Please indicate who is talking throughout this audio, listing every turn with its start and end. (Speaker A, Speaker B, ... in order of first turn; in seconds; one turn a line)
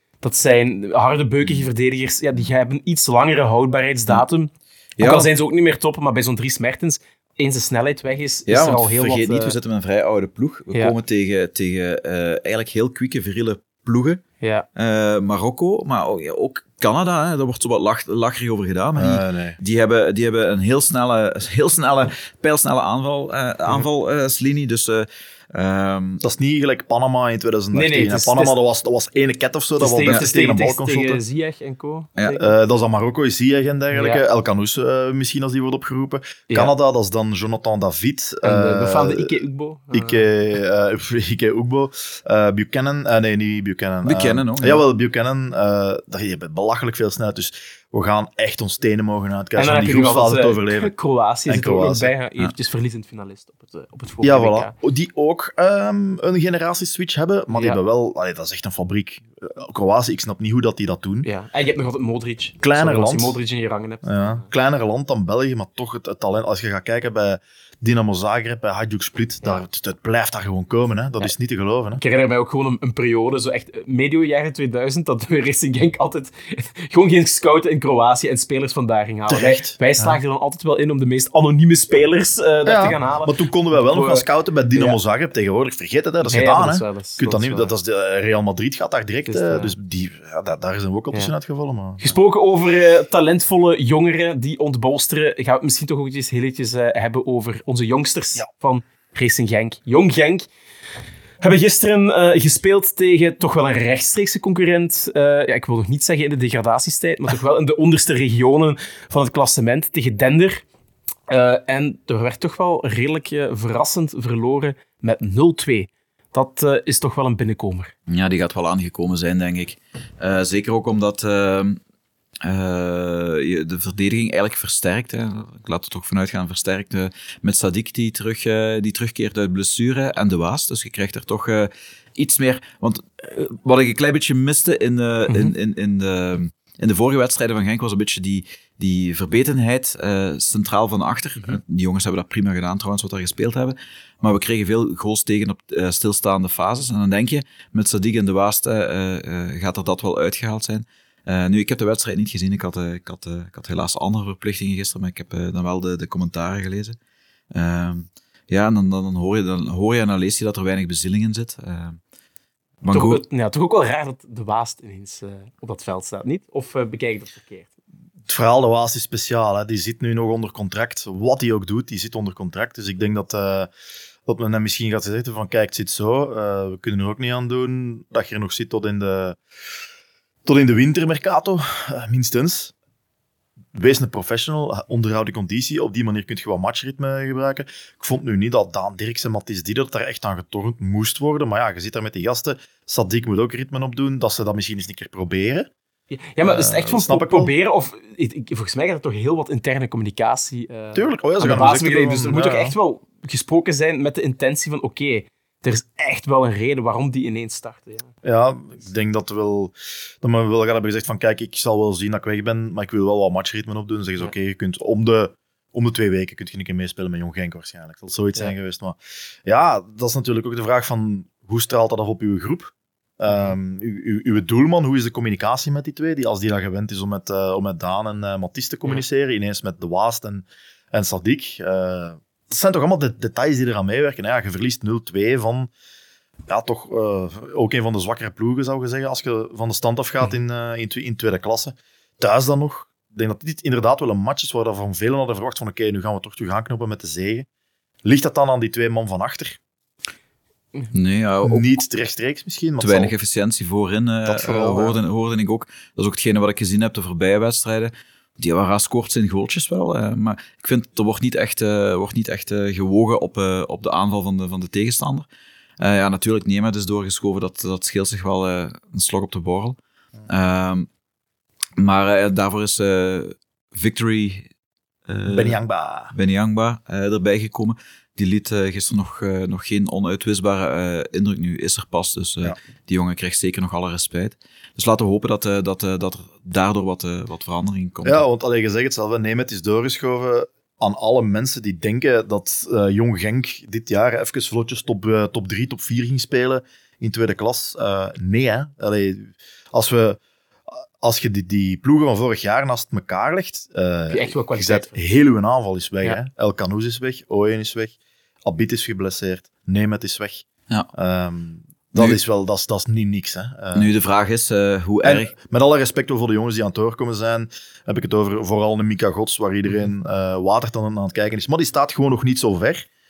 Speaker A: 0.2-9.5
Speaker B: 5.0-5.3
Speaker B: 8.5-14.2
Speaker A: 14.4-14.7
Speaker B: 14.8-26.2
Speaker C: 18.9-19.6
Speaker C: 26.2-31.2
Speaker A: 27.7-28.6
Speaker A: 29.8-32.5
Speaker C: 32.4-39.3
Speaker A: 33.9-34.2
Speaker A: 38.4-40.3
Speaker C: 39.9-50.9
Speaker B: 44.0-44.8
Speaker A: 49.6-54.7
Speaker C: 51.5-52.1
Speaker C: 54.2-61.3
Speaker A: 57.5-57.8
Speaker A: 61.2-64.5
Speaker C: 62.6-63.4
Speaker C: 64.0-72.0
Speaker A: 72.0-85.0
Speaker C: 79.3-80.2
Speaker C: 82.7-92.1
Speaker A: 86.2-87.7
Speaker A: 89.3-89.7
Speaker A: 92.0-100.5
Speaker A: 101.4-110.6
Speaker A: 111.3-117.9
Speaker B: 118.1-121.8
Speaker B: 122.4-157.0
Speaker B: 157.5-162.0
Speaker B: 162.8-163.2
Speaker A: 162.9-167.7
Speaker C: 168.3-173.7
Speaker C: 174.2-179.4
Speaker C: 180.4-182.7
Speaker C: 183.7-195.7
Speaker A: 196.1-208.1
Speaker C: 196.4-197.5
Speaker C: 200.9-202.7
Speaker C: 208.2-235.7
Speaker C: 236.5-247.5
Speaker C: 248.0-249.6
Speaker B: 250.9-251.7
Speaker C: 251.4-253.1
Speaker B: 252.8-265.2
Speaker C: 254.2-255.0
Speaker B: 265.8-269.8
Speaker B: 270.3-270.9
Speaker B: 271.8-274.4
Speaker B: 275.1-275.6
Speaker C: 275.3-276.1
Speaker B: 276.1-288.2
Speaker C: 288.0-300.2
Speaker C: 301.0-313.9
Speaker A: 304.1-305.0
Speaker B: 313.7-315.3
Speaker C: 315.0-322.9